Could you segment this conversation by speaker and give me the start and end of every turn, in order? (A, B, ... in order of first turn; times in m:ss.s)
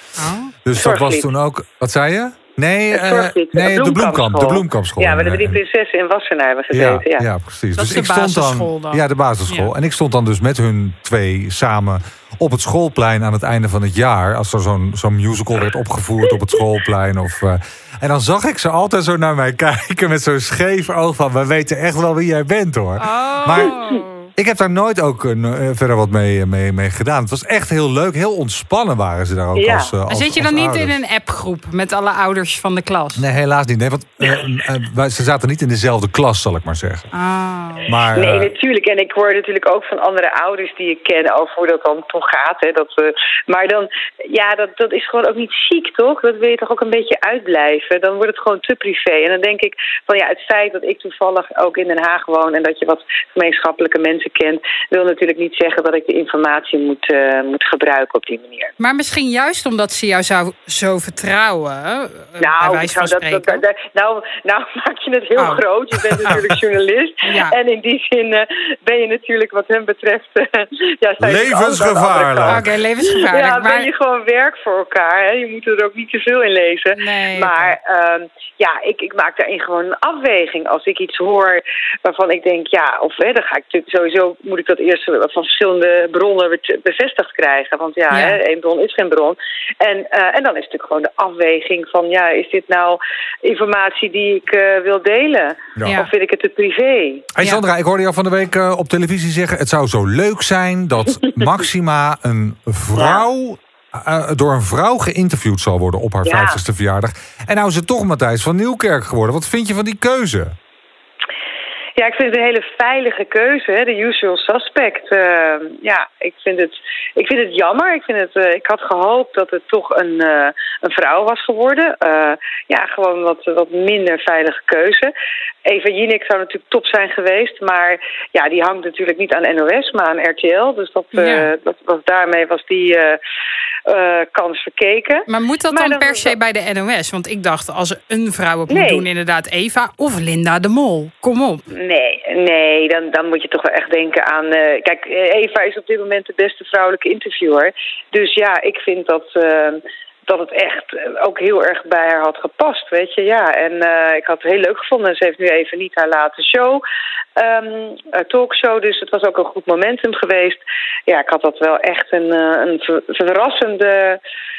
0:00.2-0:00.5 A
0:00.6-0:05.6 B
0:00.8-0:01.3 C
0:02.9-0:07.3 C
0:06.7-0:23.7 B
0:07.8-0:09.7 A
0:23.0-0:24.3 A
0:24.4-0:31.0 B
0:29.5-0:29.9 C
0:30.1-0:33.2 A
0:33.2-0:37.1 B
0:37.1-0:37.9 A
0:37.9-0:38.5 B
0:38.1-0:58.7 C
0:58.8-1:03.6 A
1:02.4-1:37.3 C
1:05.4-1:05.6 A
1:07.2-1:07.6 A
1:11.2-1:12.7 B
1:12.4-1:13.9 A
1:17.0-1:17.7 A
1:28.1-1:28.4 A
1:37.3-1:50.6 B
1:43.0-1:43.2 C
1:46.2-1:46.6 C
1:52.0-2:05.1 C
2:05.6-2:13.2 C
2:11.1-2:11.5 A
2:13.8-2:16.3 C
2:15.3-2:21.6 A
2:18.7-2:19.1 C
2:21.7-2:36.8 C
2:37.4-2:44.2 C